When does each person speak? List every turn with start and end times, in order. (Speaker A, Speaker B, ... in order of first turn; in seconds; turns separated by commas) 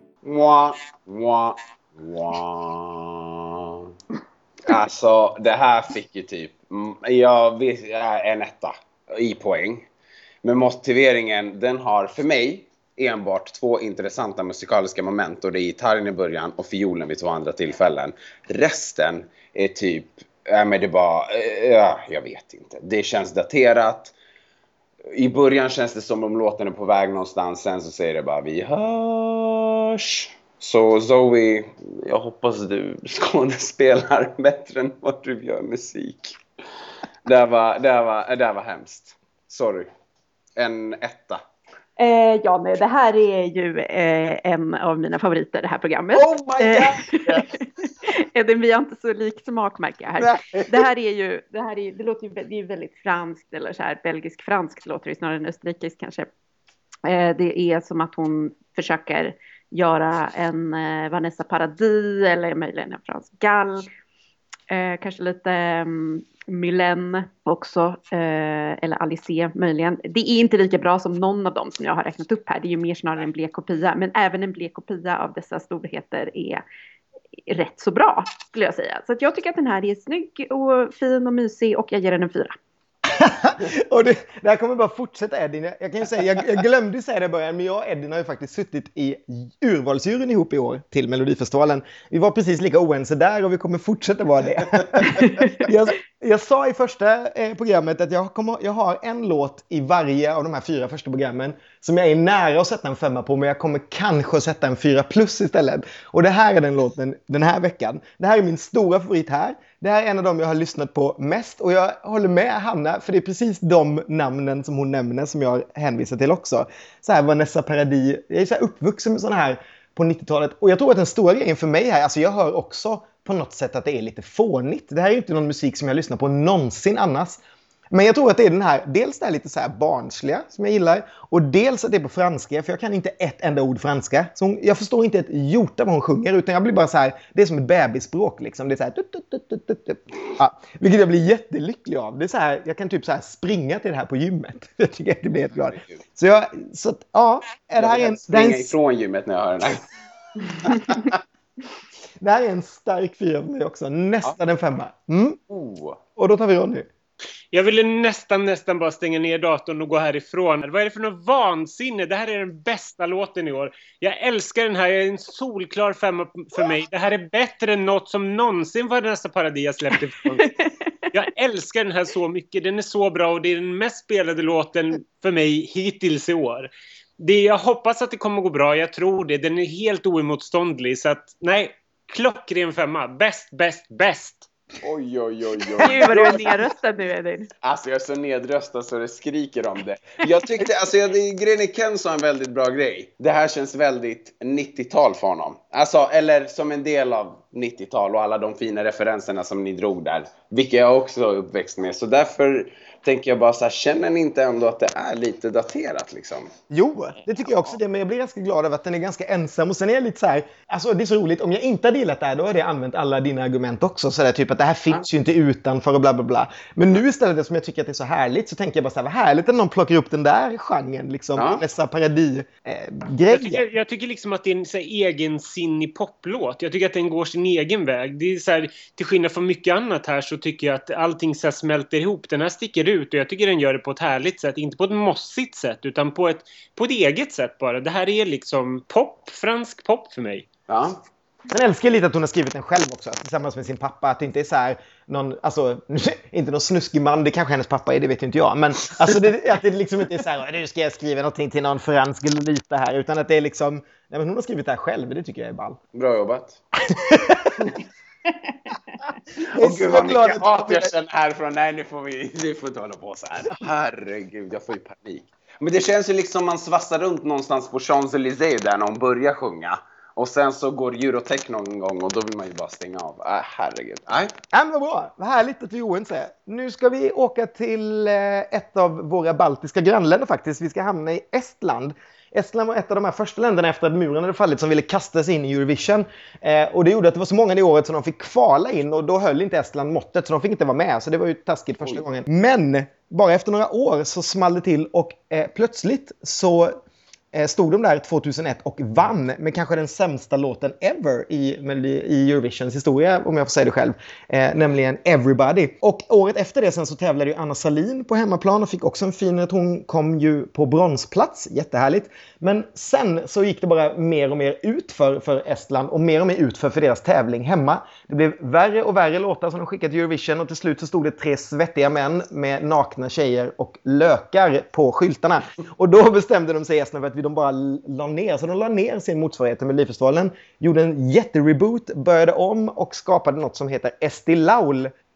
Speaker A: 0.2-3.9, Speaker A: 4.6-9.9, Speaker A: 10.4-24.1, Speaker A: 25.1-36.4, Speaker A: 37.3-39.9, Speaker A: 40.6-41.4, Speaker B: 42.0-56.3, Speaker A: 46.1-47.5, Speaker A: 50.2-50.9, Speaker B: 57.0-63.9, Speaker B: 64.7-76.6, Speaker B: 77.5-82.6, Speaker C: 83.1-148.7, Speaker A: 145.6-146.0, Speaker A: 147.8-149.8, Speaker A: 150.4-151.2, Speaker C: 152.2-155.4, Speaker A: 155.5-156.0, Speaker C: 156.2-156.9, Speaker D: 157.5-170.5, Speaker B: 170.4-170.7, Speaker D: 171.1-184.5, Speaker A: 184.8-186.6, Speaker B: 185.8-187.5, Speaker A: 187.6-206.5, Speaker C: 206.7-223.6, Speaker A: 221.4-221.6, Speaker D: 223.3-240.5, Speaker A: 240.7-241.0, Speaker C: 241.5-255.8, Speaker A: 255.9-256.6, Speaker C: 256.9-257.7, Speaker A: 259.4-274.3, Speaker C: 259.6-260.9, Speaker C: 274.5-296.8, Speaker C: 297.3-334.9